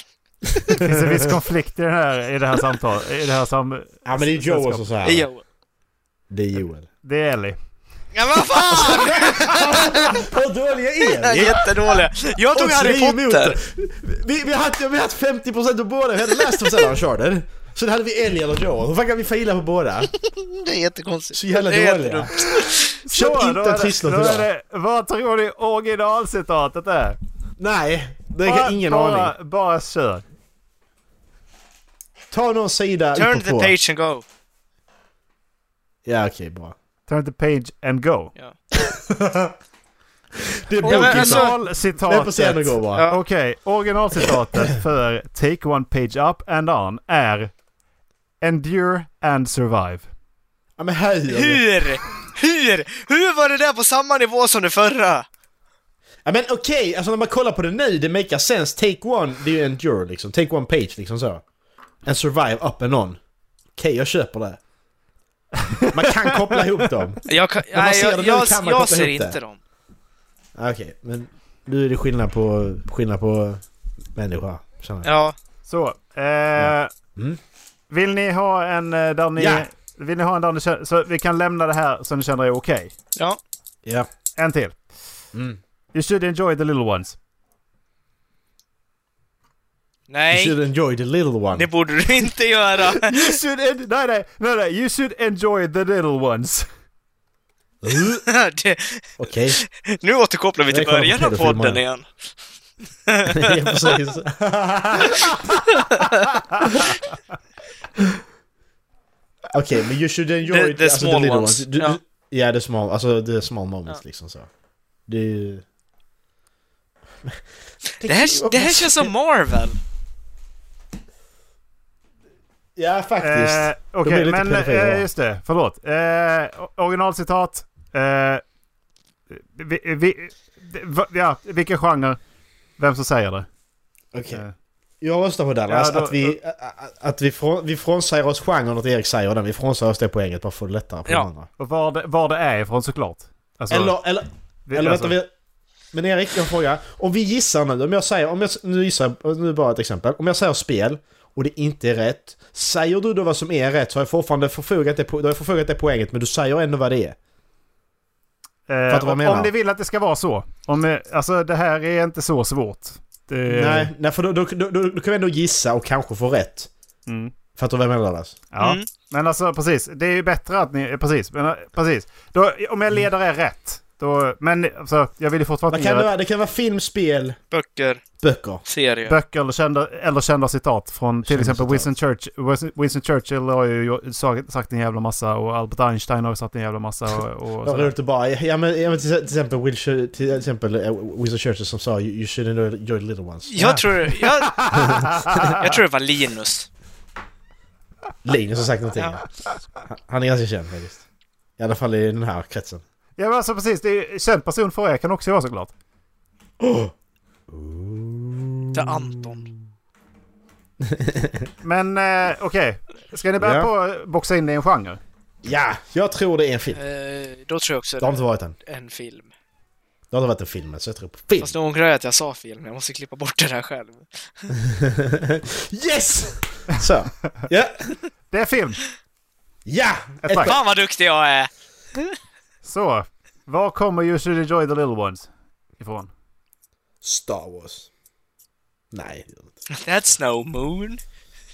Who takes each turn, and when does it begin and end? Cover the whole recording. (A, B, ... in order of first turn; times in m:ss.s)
0:00.5-0:01.3 A
0:00.7-0:04.8 B
0:04.0-0:05.3 A
0:05.0-0:05.4 C
0:06.3-0:06.9 A
0:07.0-0:07.6 B
0:08.1-0:10.2 C
0:08.5-0:12.0 A
0:11.0-0:13.6 C
0:12.5-0:20.1 A
0:20.2-0:23.0 C
0:21.3-0:22.3 A
0:23.0-0:24.5 A
0:23.0-0:27.2 B
0:27.6-0:29.3 A
0:28.4-0:30.2 B
0:32.3-0:33.8 A
0:33.1-0:34.2 C
0:36.0-0:36.7 A
0:37.1-0:38.3 B
0:38.7-0:39.6 A
0:40.4-0:43.1 A
0:40.8-0:41.6 C
0:40.8-0:47.5 B
0:42.9-0:43.2 C
0:48.4-0:50.1 B
0:50.8-0:51.6 A
0:51.3-0:55.2 C
0:56.2-1:01.4 A
1:02.0-1:03.2 A
1:03.8-1:04.6 A
1:05.6-1:06.9 B
1:05.9-1:09.4 A
1:07.3-1:09.6 C
1:10.6-1:13.6 A
1:14.1-1:15.1 A
1:15.0-1:15.3 C
1:15.7-1:16.9 B
1:16.6-1:17.4 A
1:17.9-1:22.9 B
1:19.4-1:19.7 A
1:24.4-1:24.8 B
1:25.3-1:25.6 A
1:25.9-1:27.2 B
1:30.1-1:30.6 C
1:30.3-1:31.7 A
1:31.5-1:33.4 C
1:33.0-1:36.7 B
1:37.8-1:38.2 A
1:38.2-1:42.0 C
1:39.2-1:39.6 A
1:40.7-1:41.8 A
1:43.1-1:44.0 C
1:43.2-1:45.4 A
1:45.7-1:46.2 C
1:49.5-1:54.5 A
1:50.4-1:52.0 C
1:55.1-1:55.6 A
1:57.9-1:59.8 C
1:58.0-1:59.1 A
2:02.8-2:05.1 A
2:03.2-2:08.4 B
2:09.3-2:12.2 B
2:12.8-2:13.5 B
2:14.1-2:14.4 A
2:15.0-2:21.5 A
2:15.7-2:16.4 B
2:21.6-2:24.0 B
2:23.7-2:25.3 A
2:24.7-2:25.2 B
2:25.9-2:37.2 A
2:38.7-2:43.9 B
2:38.9-2:39.5 A
2:43.5-2:46.7 A
2:47.1-2:47.3 B
2:47.5-2:48.4 A
2:48.5-2:56.1 B
2:48.6-2:48.8 C
2:55.7-2:57.4 A
2:57.5-2:58.0 C
2:58.2-2:58.6 A
2:58.6-2:59.2 C
2:59.1-3:07.9 B
3:01.2-3:01.9 A
3:07.6-3:13.8 A
3:13.5-3:14.8 C
3:13.6-3:15.6 B
3:14.7-3:15.5 A
3:15.4-3:16.7 C
3:18.2-3:19.2 A
3:18.9-3:19.2 C
3:19.8-3:21.0 A
3:21.6-3:22.8 A
3:23.2-3:25.7 B
3:26.6-3:26.9 A
3:27.5-3:29.5 A
3:28.7-3:29.5 C
3:30.8-3:31.5 A
3:31.6-3:35.0 B
3:33.4-3:33.7 A
3:35.4-3:36.8 A
3:36.7-3:39.3 C
3:38.0-3:38.6 A
3:40.1-3:41.5 A
3:41.4-3:44.5 C
3:44.6-3:48.0 A
3:48.3-3:48.8 B
3:49.6-3:50.6 A
3:50.2-3:50.5 B
3:50.4-3:52.1 C
3:52.6-3:56.1 B
3:57.0-3:57.9 A
3:58.9-3:59.6 A
3:59.7-4:01.0 C